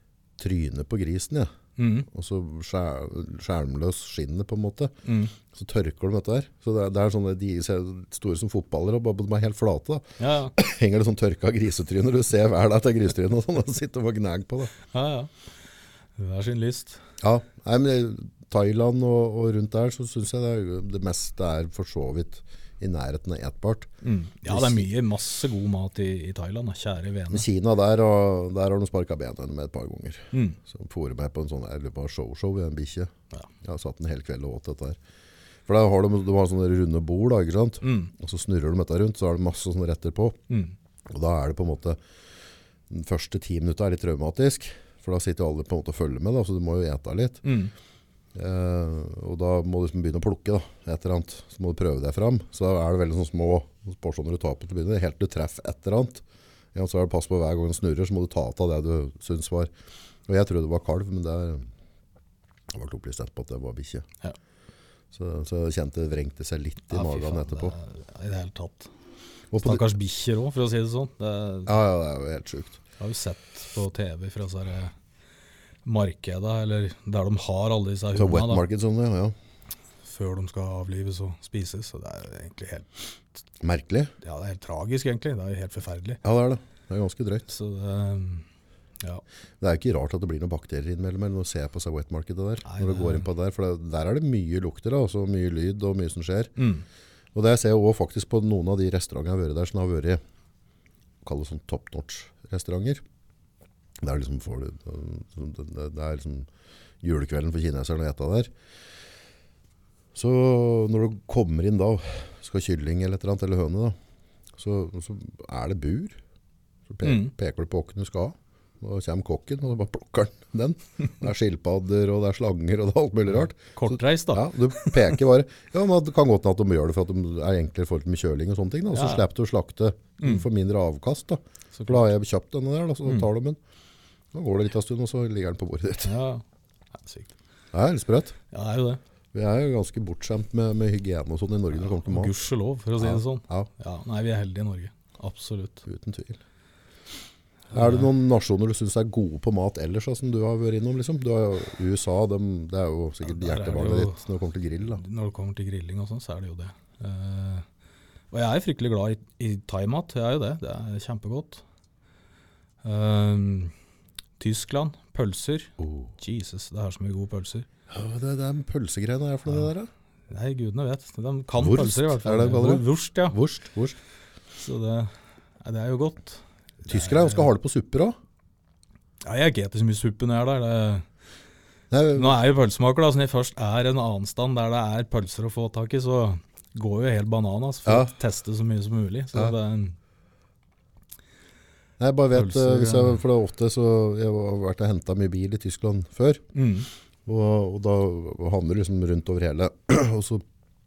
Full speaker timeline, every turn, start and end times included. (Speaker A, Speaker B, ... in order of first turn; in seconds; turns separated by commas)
Speaker A: 0.4-1.5, Speaker B: 1.8-2.1, Speaker A: 2.1-4.9, Speaker B: 5.0-5.3, Speaker A: 5.5-10.0, Speaker B: 10.2-10.5, Speaker A: 10.6-14.7, Speaker B: 14.9-15.3, Speaker B: 16.2-17.0, Speaker A: 17.2-23.9, Speaker B: 24.0-27.4, Speaker A: 24.5-24.8, Speaker A: 27.3-35.0, Speaker B: 30.3-30.6, Speaker A: 35.7-40.4, Speaker B: 37.8-38.1, Speaker B: 40.5-40.7, Speaker A: 41.1-42.0, Speaker A: 42.9-47.4, Speaker B: 47.4-47.7, Speaker A: 48.3-56.2, Speaker A: 56.7-59.7, Speaker A: 60.3-61.7, Speaker A: 62.7-64.0, Speaker A: 65.1-67.7, Speaker B: 66.9-68.9, Speaker A: 69.5-69.8, Speaker B: 69.6-71.7, Speaker A: 71.7-72.8, Speaker B: 73.0-74.9, Speaker B: 75.8-78.6, Speaker A: 78.1-79.3, Speaker B: 80.0-82.9, Speaker A: 83.6-84.1, Speaker B: 84.2-86.2, Speaker A: 86.2-87.5, Speaker B: 87.5-88.5, Speaker A: 89.6-96.5, Speaker B: 92.6-93.3, Speaker B: 96.6-96.8, Speaker A: 97.3-100.2, Speaker A: 101.2-103.0, Speaker A: 104.0-106.5, Speaker A: 107.0-108.5, Speaker A: 110.1-114.0, Speaker A: 114.6-116.2, Speaker A: 116.9-133.6, Speaker B: 117.0-117.3, Speaker B: 123.5-125.2, Speaker B: 128.9-129.2, Speaker B: 130.2-130.4, Speaker B: 131.7-132.1, Speaker A: 134.3-136.1, Speaker B: 136.0-136.4, Speaker B: 137.0-137.3, Speaker A: 137.7-138.3, Speaker B: 138.5-139.0, Speaker A: 139.3-142.4, Speaker B: 141.8-145.8, Speaker A: 143.0-143.7, Speaker A: 145.8-146.4, Speaker B: 147.7-148.1, Speaker A: 147.7-155.0, Speaker B: 153.2-154.2, Speaker B: 154.9-157.6, Speaker B: 158.3-161.6, Speaker B: 162.8-163.7, Speaker B: 164.4-167.7, Speaker A: 165.8-166.1, Speaker A: 167.9-169.9, Speaker B: 170.3-173.4, Speaker A: 171.6-174.0, Speaker B: 174.6-175.1, Speaker B: 175.6-177.5, Speaker A: 176.8-178.2, Speaker B: 179.2-181.1, Speaker A: 181.9-182.4, Speaker B: 182.1-189.9, Speaker A: 187.8-188.1, Speaker A: 192.0-196.4, Speaker B: 192.3-193.2, Speaker B: 196.5-196.9, Speaker A: 197.2-200.4